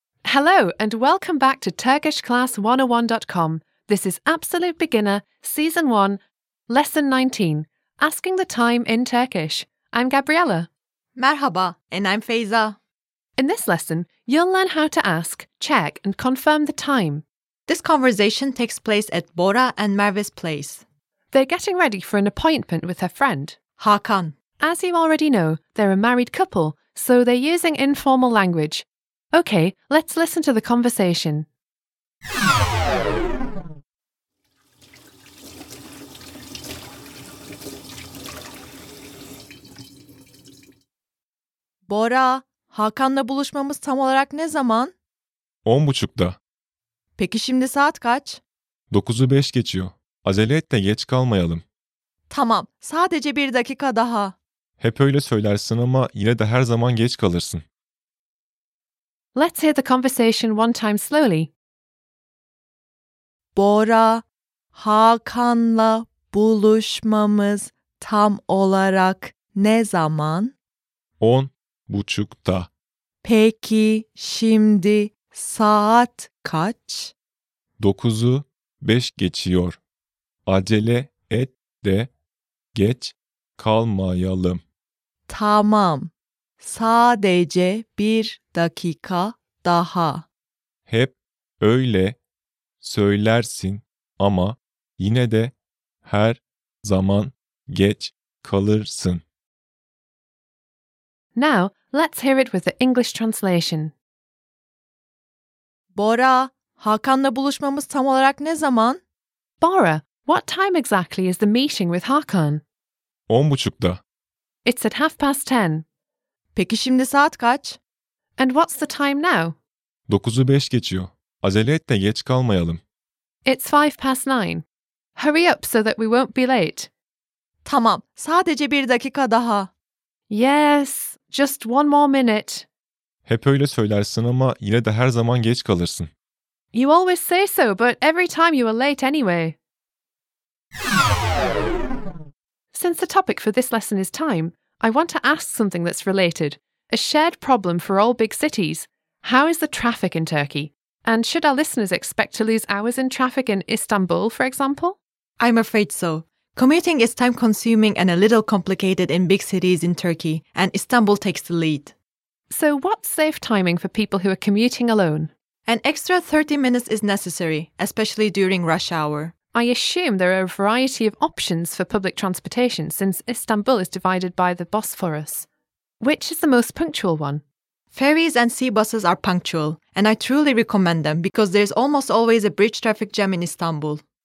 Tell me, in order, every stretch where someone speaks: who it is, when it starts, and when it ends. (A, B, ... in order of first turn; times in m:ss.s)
0:00.2-0:10.7 A
0:11.2-0:12.8 B
0:13.4-0:17.2 A
0:17.7-0:20.8 B
0:21.3-0:23.6 A
0:23.8-0:24.4 B
0:24.6-0:31.5 A
0:41.9-0:45.0 B
0:45.6-0:46.4 C
0:47.2-0:48.4 B
0:48.9-0:51.6 C
0:52.3-0:54.4 B
0:54.8-0:57.6 C
0:59.4-1:01.5 A
1:03.6-1:04.2 B
1:04.8-1:10.5 B
1:11.2-1:12.7 C
1:13.2-1:17.1 B
1:17.8-1:19.8 C
1:20.5-1:22.1 C
1:22.7-1:24.6 C
1:25.3-1:30.2 B
1:30.9-1:32.2 C
1:32.8-1:39.2 C
1:41.4-1:43.9 A
1:45.9-1:49.0 B
1:49.6-1:52.6 A
1:53.3-1:54.0 C
1:54.6-1:55.8 A
1:56.6-1:57.8 B
1:58.4-1:59.6 A
2:00.1-2:02.8 C
2:03.4-2:04.6 A
2:05.2-2:06.9 A
2:07.6-2:09.7 B
2:10.3-2:12.7 A
2:13.3-2:16.1 C
2:16.7-2:19.6 A
2:22.7-2:35.0 A
2:35.4-2:42.0 B
2:42.5-2:45.3 A
2:45.7-2:49.3 B
2:49.5-2:55.5 A
2:56.0-2:57.4 A
2:57.9-3:04.0 B